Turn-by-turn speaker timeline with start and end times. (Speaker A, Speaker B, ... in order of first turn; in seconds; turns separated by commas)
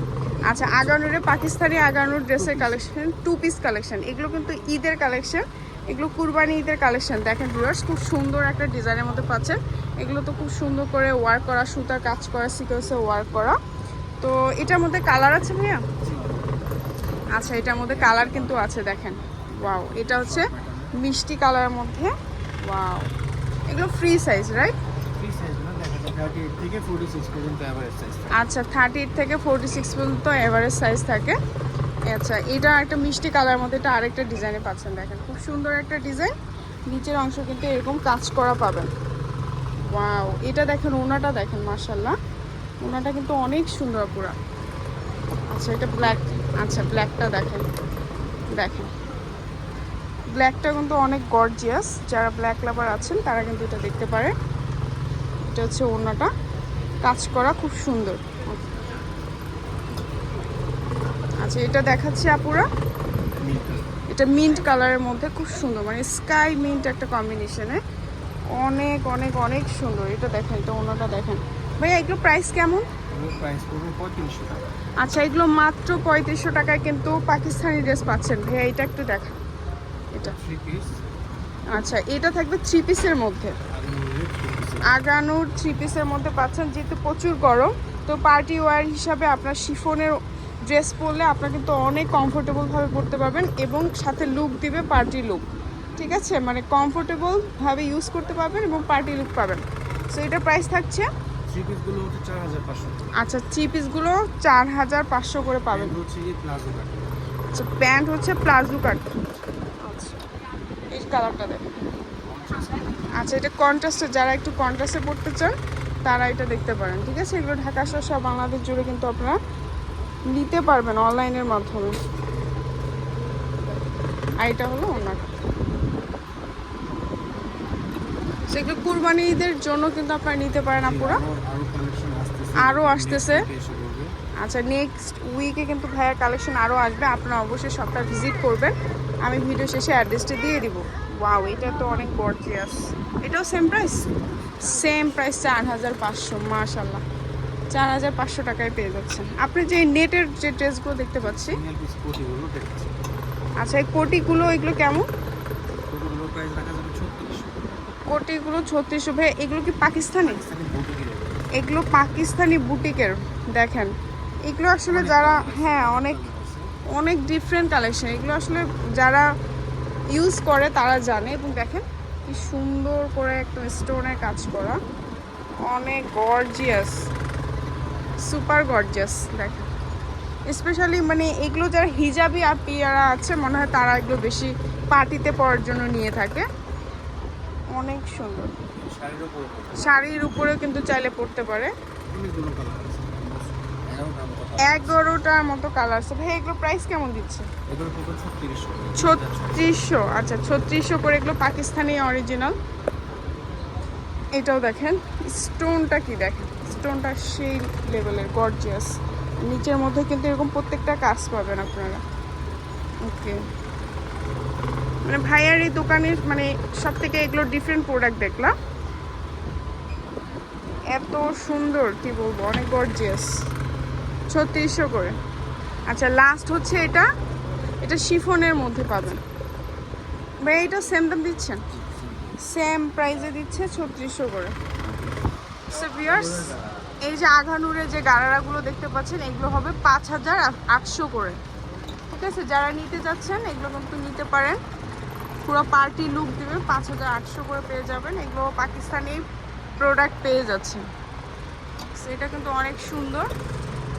Speaker A: 0.5-13.6, Speaker B: 2.4-2.9, Speaker A: 14.2-15.9, Speaker B: 16.0-16.7, Speaker A: 17.3-22.1, Speaker B: 17.7-18.6, Speaker B: 19.7-20.9, Speaker A: 22.6-23.1, Speaker A: 23.7-24.7, Speaker B: 25.1-28.4, Speaker A: 28.3-31.4, Speaker A: 32.1-36.3, Speaker A: 36.9-38.9, Speaker A: 39.9-42.2, Speaker A: 42.8-44.4, Speaker A: 45.5-47.7, Speaker A: 48.5-48.9, Speaker A: 50.4-54.3, Speaker A: 55.5-56.3, Speaker A: 57.0-58.6, Speaker A: 61.4-62.7, Speaker B: 63.4-63.9, Speaker A: 64.1-67.8, Speaker A: 68.6-72.9, Speaker B: 73.1-74.7, Speaker A: 75.0-79.4, Speaker B: 80.2-81.1, Speaker A: 81.7-83.5, Speaker B: 83.7-84.9, Speaker A: 84.8-90.2, Speaker A: 90.7-95.4, Speaker A: 96.0-101.1, Speaker B: 101.5-103.1, Speaker A: 103.2-105.9, Speaker B: 105.7-107.1, Speaker A: 107.5-109.2, Speaker A: 109.8-110.2, Speaker A: 110.9-111.8, Speaker B: 112.2-113.1, Speaker A: 113.2-119.4, Speaker A: 120.3-122.0, Speaker A: 124.4-125.3, Speaker A: 128.5-131.2, Speaker B: 130.8-134.1, Speaker A: 132.6-133.4, Speaker A: 134.4-138.7, Speaker A: 139.2-144.1, Speaker A: 144.6-147.0, Speaker B: 144.6-145.2, Speaker A: 147.7-151.6, Speaker B: 151.2-152.9, Speaker A: 153.6-155.1, Speaker B: 155.9-157.9, Speaker A: 158.1-160.4, Speaker B: 160.2-161.5, Speaker A: 161.5-163.9, Speaker A: 164.5-166.2, Speaker B: 164.9-166.7, Speaker A: 166.9-169.3, Speaker A: 170.1-174.8, Speaker A: 175.7-177.1, Speaker A: 178.2-179.7, Speaker A: 180.5-186.4, Speaker A: 187.7-188.5, Speaker B: 188.8-190.1, Speaker A: 189.8-191.7, Speaker B: 192.1-195.0, Speaker A: 194.6-197.5, Speaker B: 197.7-199.8, Speaker A: 199.0-202.5, Speaker A: 204.3-212.0, Speaker A: 213.0-213.4, Speaker A: 215.0-218.5, Speaker A: 220.9-223.3, Speaker A: 224.3-225.2, Speaker A: 225.9-227.1, Speaker A: 227.8-229.2, Speaker A: 230.4-231.7, Speaker B: 231.7-232.4, Speaker A: 232.4-234.6, Speaker B: 234.8-235.2, Speaker A: 235.7-241.4, Speaker B: 236.0-236.8, Speaker A: 242.1-244.6, Speaker A: 245.5-249.2, Speaker A: 249.8-250.8, Speaker A: 251.9-253.3